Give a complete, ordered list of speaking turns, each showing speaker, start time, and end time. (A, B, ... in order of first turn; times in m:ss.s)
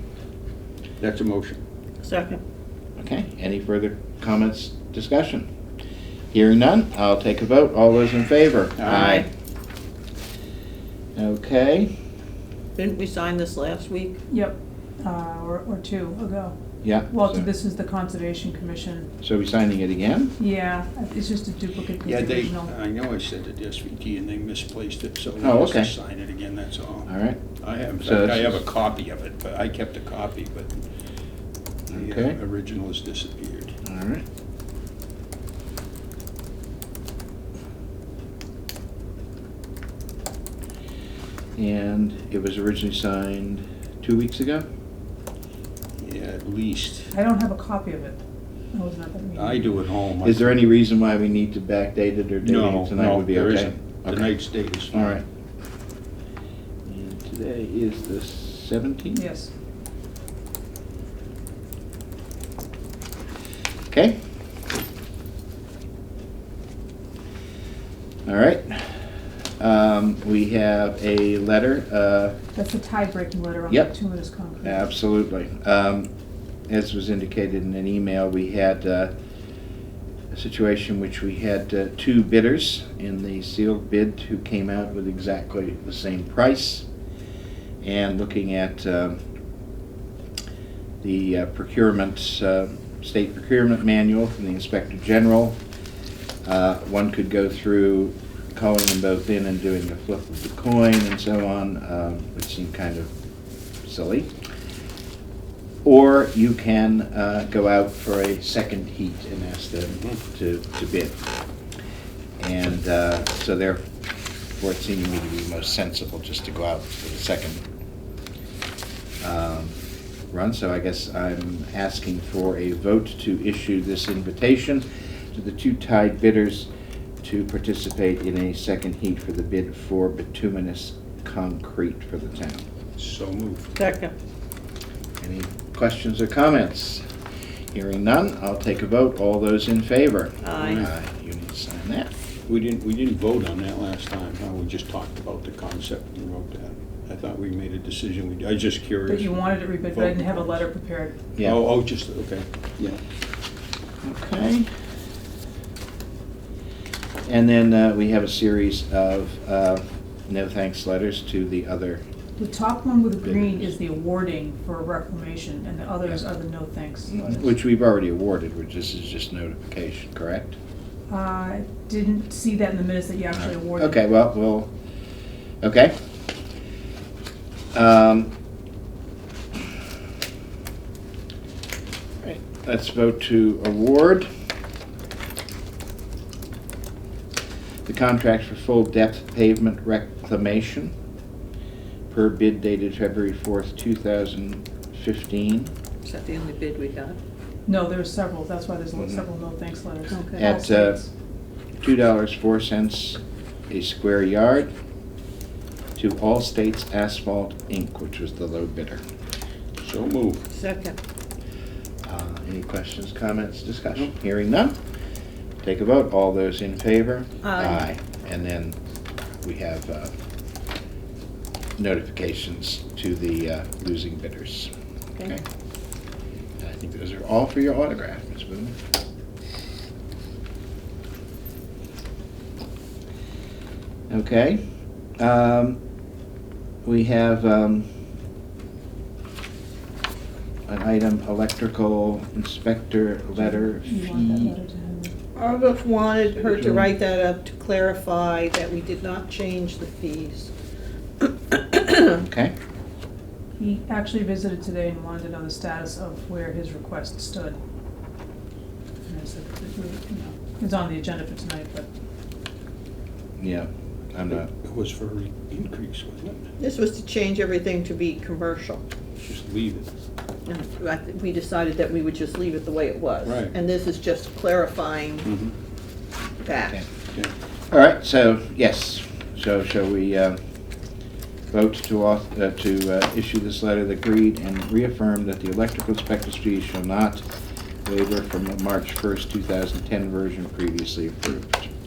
0:01.0-0:01.6 A
0:02.0-0:02.4 B
0:03.0-0:05.5 C
0:06.3-0:09.3 C
0:08.8-0:09.1 A
0:08.9-0:09.3 B
0:11.1-0:11.9 C
0:12.8-0:14.2 B
0:14.3-0:19.1 D
0:16.8-0:17.5 C
0:19.2-0:20.3 C
0:20.4-0:22.7 D
0:22.0-0:27.1 A
0:25.4-0:25.9 C
0:27.0-0:27.4 C
0:27.6-0:30.8 A
0:28.0-0:28.6 C
0:31.9-0:32.4 C
0:31.9-0:33.7 A
0:33.8-0:34.2 C
0:41.6-0:44.7 C
0:46.0-0:47.1 A
0:47.1-0:48.2 D
0:48.7-0:49.8 D
0:49.4-0:50.6 A
0:50.2-0:54.4 C
0:52.4-0:55.2 A
0:54.9-0:55.2 C
0:56.9-0:59.2 C
0:59.1-0:59.5 D
1:03.9-1:04.2 C
1:08.2-1:09.0 C
1:09.6-1:12.4 C
1:12.6-1:14.9 D
1:14.6-1:16.1 C
1:16.7-1:19.1 C
1:20.3-1:26.8 C
1:27.8-1:29.2 C
1:31.0-1:35.6 C
1:36.4-1:43.1 C
1:43.8-1:44.3 C
1:45.8-1:51.2 C
1:52.4-1:53.8 C
1:54.6-1:57.6 C
1:59.2-1:59.8 C
2:00.3-2:06.7 C
2:07.2-2:12.7 C
2:13.0-2:13.7 A
2:13.8-2:14.1 B
2:15.2-2:17.0 C
2:17.7-2:22.1 C
2:20.4-2:20.8 B
2:20.6-2:20.9 A
2:22.5-2:30.6 A
2:29.1-2:31.2 D
2:31.4-2:33.0 A
2:34.0-2:34.7 C
2:37.2-2:42.0 C
2:42.4-2:47.5 D
2:43.2-2:43.7 C
2:47.1-2:50.6 C
2:51.1-2:54.0 D
2:53.3-2:54.7 C
2:55.6-2:56.0 C
2:57.7-2:58.3 C
3:02.2-3:04.3 C
3:07.9-3:10.9 C
3:12.1-3:15.7 C
3:16.0-3:17.2 B
3:17.7-3:21.1 D
3:19.0-3:19.2 C
3:20.1-3:20.4 B
3:20.4-3:21.0 C
3:21.8-3:24.7 C
3:26.0-3:29.0 C
3:29.8-3:30.5 A
3:30.5-3:31.0 B
3:32.0-3:34.8 C
3:35.6-3:38.8 C
3:37.4-3:37.8 B
3:39.4-3:40.1 C
3:41.8-3:44.7 C
3:46.6-3:48.8 C
3:54.1-3:54.6 C
3:55.2-3:55.8 C
3:56.8-3:57.9 C
4:00.7-4:04.6 C
4:03.4-4:05.2 D
4:05.4-4:10.5 B
4:06.3-4:06.9 C
4:11.2-4:12.2 B
4:12.2-4:12.6 C
4:13.6-4:17.6 D
4:19.1-4:21.9 D
4:23.4-4:24.5 C
4:24.3-4:26.5 A
4:26.6-4:28.9 B
4:29.2-4:29.9 A
4:30.4-4:35.3 B
4:33.2-4:33.6 A
4:35.2-4:35.5 A
4:36.4-4:36.8 B
4:37.7-4:40.4 C
4:41.5-4:47.2 C
4:47.8-4:51.7 C